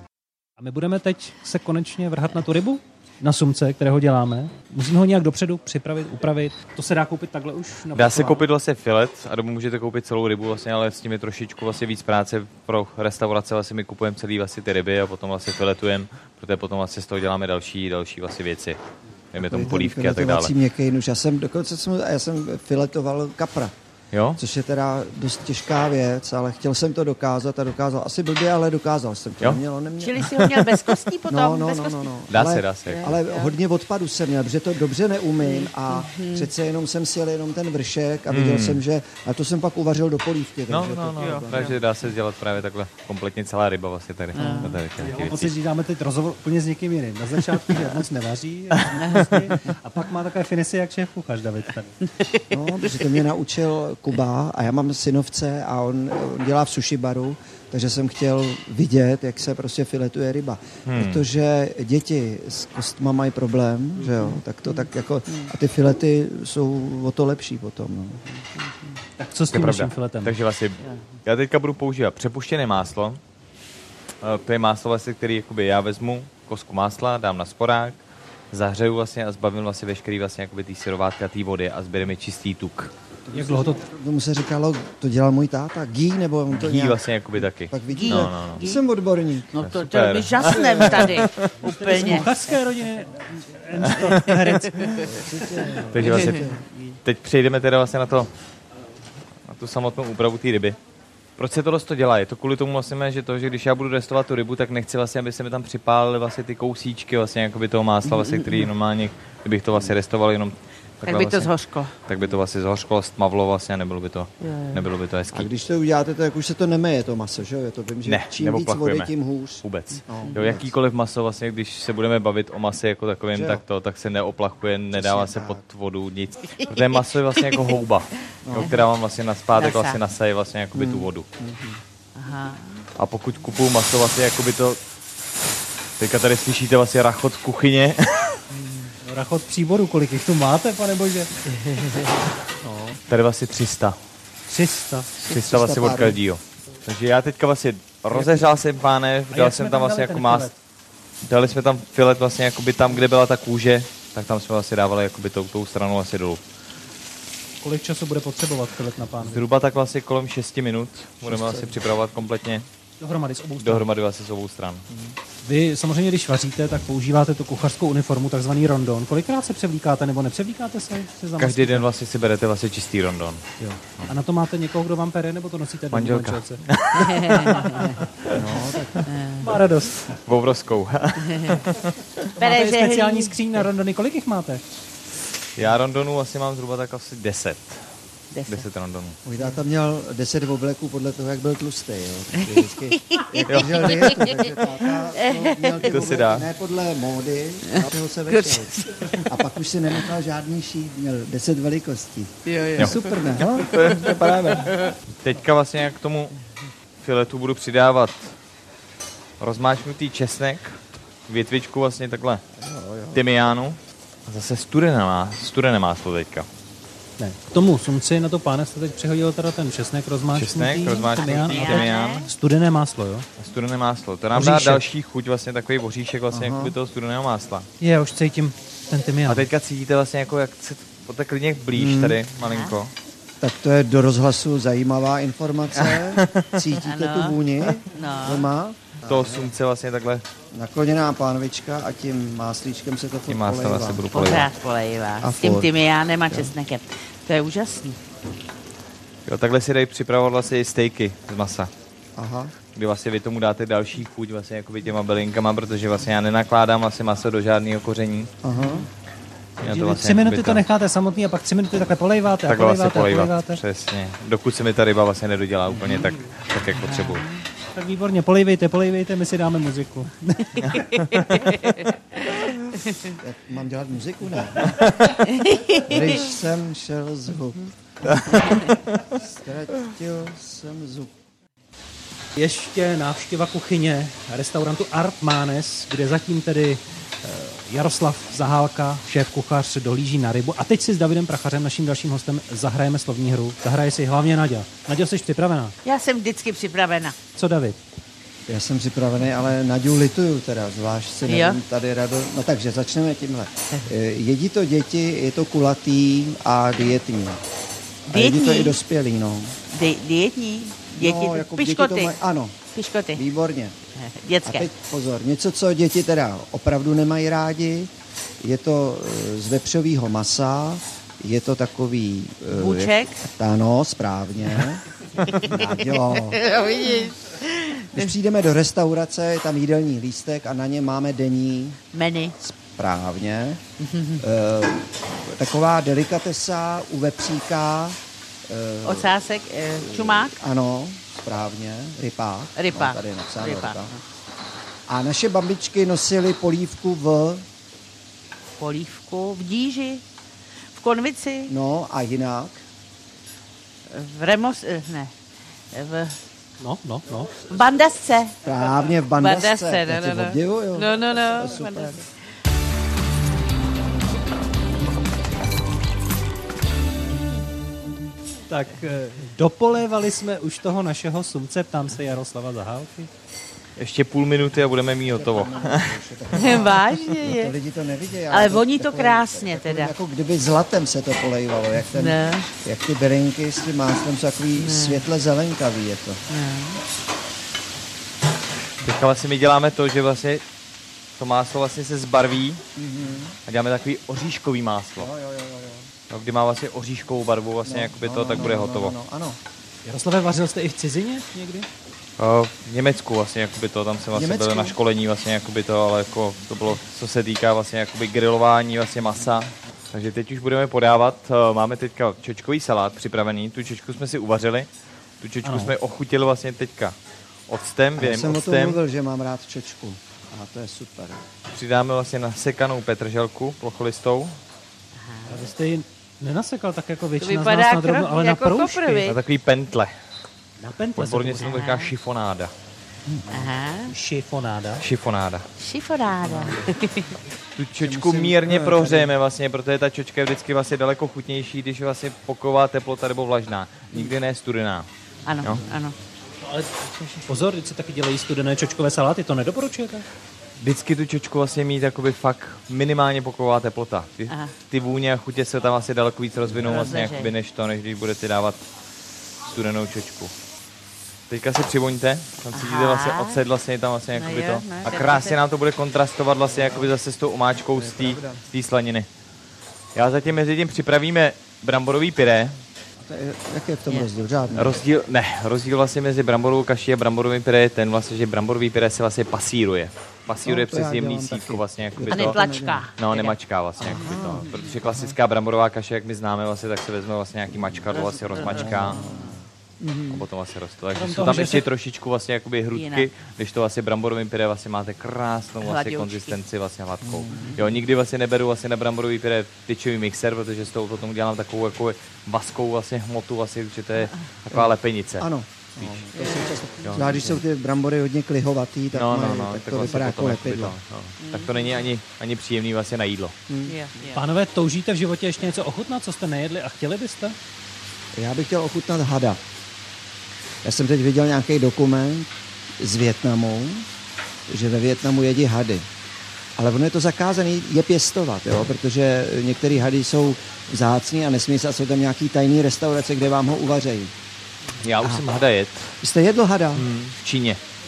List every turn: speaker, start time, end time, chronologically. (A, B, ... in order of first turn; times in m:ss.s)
0:00.6-0:08.4 A
0:08.0-0:18.8 B
0:19.3-0:20.5 B
0:19.4-0:23.7 C
0:24.1-0:24.4 B
0:24.4-0:30.4 C
0:30.0-0:32.2 D
0:30.2-0:30.8 B
0:31.3-0:41.8 C
0:32.3-0:33.2 B
0:32.9-0:33.6 D
0:35.4-0:36.5 D
0:38.3-0:38.8 B
0:40.7-0:45.5 B
0:44.3-0:44.8 D
0:45.0-0:52.0 A
0:49.0-0:49.4 D
0:52.5-1:08.2 C
1:00.9-1:01.2 B
1:04.2-1:05.5 D
1:09.2-1:10.4 A
1:09.5-1:13.2 B
1:14.2-1:18.0 B
1:18.5-1:22.9 B
1:23.3-1:27.0 C
1:23.3-1:23.8 A
1:26.5-1:28.6 B
1:27.7-1:29.6 C
1:27.9-1:28.8 D
1:29.5-1:32.5 D
1:29.6-1:31.5 B
1:30.6-1:31.0 C
1:31.6-1:35.1 A
1:33.8-1:34.2 B
1:35.0-1:36.6 C
1:35.9-1:36.5 B
1:36.0-1:37.0 D
1:37.0-1:38.3 B
1:39.5-1:40.8 B
1:41.4-1:55.5 B
1:48.1-1:48.7 D
1:51.0-1:51.9 D
1:54.4-1:54.9 D
1:55.3-2:00.7 C
1:58.0-2:11.3 B
2:03.3-2:03.6 C
2:04.9-2:05.6 C
2:08.4-2:08.7 C
2:08.5-2:08.9 D
2:09.6-2:10.0 D
2:10.7-2:11.8 C
2:12.2-2:12.8 D
2:13.0-2:14.8 B
2:16.0-2:18.4 B
2:18.5-2:18.9 D
2:19.0-2:21.4 A
2:21.5-2:22.1 D
2:22.6-2:23.0 C
2:23.1-2:24.0 B
2:24.5-2:25.1 A
2:25.2-2:30.5 B
2:25.3-2:26.2 C
2:28.1-2:28.4 A
2:29.3-2:30.6 A
2:31.2-2:36.4 B
2:37.6-2:39.4 A
2:39.2-2:42.7 B
2:41.3-2:41.8 C
2:43.0-2:43.8 A
2:43.6-2:44.9 B
2:44.9-2:45.2 C
2:45.4-2:51.9 A
2:51.4-2:54.1 B
2:53.6-2:56.6 A
2:55.9-2:58.6 B
2:56.9-2:58.0 D
2:57.6-2:58.0 A
2:58.3-2:59.0 C
2:59.1-2:59.5 D
2:59.4-3:00.1 A
3:00.0-3:02.2 B
3:01.2-3:01.6 D
3:02.4-3:03.6 D
3:02.4-3:04.6 A
3:05.6-3:07.9 B
3:08.3-3:08.7 D
3:08.5-3:09.2 B
3:09.2-3:24.8 C
3:12.4-3:14.5 D
3:13.5-3:14.3 B
3:15.1-3:15.9 D
3:15.8-3:16.5 B
3:17.7-3:19.3 D
3:22.5-3:23.1 D
3:23.7-3:24.9 D
3:23.8-3:26.3 B
3:27.0-3:28.4 B
3:29.4-3:32.4 B
3:32.6-3:33.2 C
3:33.1-3:36.5 B
3:37.2-3:43.3 A
3:40.4-3:42.3 B
3:41.0-3:42.3 D
3:43.4-3:47.7 B
3:44.3-3:44.8 A
3:46.3-3:46.8 C
3:47.8-3:49.5 A
3:49.3-3:52.9 B
3:51.7-3:52.2 C
3:52.5-3:52.8 D
3:53.4-3:59.5 C
3:55.8-3:56.7 B
3:56.8-3:58.5 D
3:59.0-4:00.2 B
4:00.5-4:04.1 C
4:03.3-4:04.5 B
4:04.1-4:08.0 D
4:05.2-4:05.7 C
4:09.3-4:11.7 B
4:12.2-4:12.5 C
4:12.8-4:18.3 B
4:18.4-4:18.9 C
4:18.6-4:18.8 D
4:19.6-4:20.6 B
4:19.6-4:23.6 A
4:22.5-4:27.3 B
4:25.8-4:26.1 D
4:26.8-4:27.4 D
4:27.8-4:30.8 A
4:30.6-4:33.1 D
4:33.2-4:35.0 C
4:34.8-4:35.2 B
4:35.3-4:36.0 D
4:35.8-4:38.6 C
4:38.1-4:39.0 B
4:39.1-4:41.2 C
4:42.4-4:55.8 A
4:55.8-4:57.2 D
4:57.4-4:57.8 A
4:58.5-5:07.4 C
5:01.3-5:01.6 D
5:08.1-5:08.8 D
5:08.1-5:09.6 C
5:09.7-5:12.2 D
5:11.0-5:12.6 C
5:12.7-5:13.2 D
5:13.1-5:13.8 C
5:14.0-5:14.7 D
5:14.4-5:26.4 C
5:22.6-5:23.2 D
5:25.4-5:28.1 D
5:27.9-5:31.8 C
5:31.9-5:32.4 D
5:32.4-5:33.6 C
5:33.8-5:34.2 D
5:34.2-5:39.2 C
5:38.8-5:40.4 D
5:39.8-5:43.9 C
5:42.6-5:44.0 D
5:44.9-5:47.5 C
5:48.6-5:50.0 D
5:50.7-5:51.5 D
5:51.5-5:52.6 C
5:53.9-5:55.1 D
5:55.7-5:56.2 D
5:56.6-5:57.4 A
5:57.4-5:58.4 D
5:58.4-6:02.0 C
5:59.1-6:02.1 D
6:08.5-6:13.1 A
6:13.8-6:16.0 B
6:15.1-6:26.2 C
6:16.3-6:17.6 D
6:18.3-6:19.9 D
6:21.9-6:22.5 D
6:24.6-6:25.0 D
6:26.3-6:26.8 D
6:28.8-6:30.4 B
6:31.2-6:32.6 B
6:32.8-6:33.4 C
6:33.5-6:35.1 B
6:35.0-6:35.9 C
6:36.1-6:39.0 B
6:37.6-6:39.4 C
6:39.8-6:41.7 A
6:42.2-6:54.7 B
6:44.1-6:44.8 C
6:55.2-6:57.0 B
6:55.4-6:55.7 A
6:57.5-6:58.8 B
6:58.0-7:01.3 C
7:01.5-7:04.4 B
7:05.0-7:05.4 D
7:05.3-7:09.1 A
7:07.2-7:09.2 D
7:09.0-7:09.9 B
7:10.6-7:11.6 A
7:11.0-7:12.5 B
7:11.4-7:11.9 D
7:13.1-7:13.5 C
7:13.1-7:13.9 D
7:13.9-7:14.8 A
7:14.8-7:15.5 B
7:15.6-7:17.2 D
7:16.2-7:16.8 C
7:17.6-7:24.9 B
7:17.8-7:19.1 C
7:25.2-7:26.0 D
7:26.5-7:30.0 A
7:30.6-7:38.6 B
7:36.6-7:37.3 D
7:39.4-7:40.3 B
7:41.3-7:49.1 B
7:42.5-7:43.4 D
7:44.2-7:45.4 D
7:47.8-7:48.4 C
7:50.0-7:52.6 B
7:53.0-7:54.8 C
7:54.6-8:02.4 B
8:00.4-8:02.9 C
8:02.1-8:04.7 D
8:03.0-8:09.0 B
8:03.8-8:05.2 C
8:07.9-8:10.2 D
8:08.3-8:09.4 C
8:10.1-8:25.3 B
8:11.0-8:11.7 A
8:12.7-8:13.1 D
8:15.6-8:16.4 D
8:17.0-8:17.6 C
8:17.3-8:17.6 D
8:24.5-8:30.8 C
8:26.2-8:27.3 D
8:26.8-8:27.3 B
8:28.9-8:33.4 B
8:31.2-8:31.8 D
8:33.5-8:33.8 C
8:33.7-8:34.2 D
8:34.1-8:37.4 A
8:38.2-8:39.4 C
8:40.6-8:43.9 C
8:44.5-8:45.9 C
8:46.6-8:54.1 C
8:54.8-8:56.0 B
8:56.0-8:56.9 C
8:56.8-8:57.6 B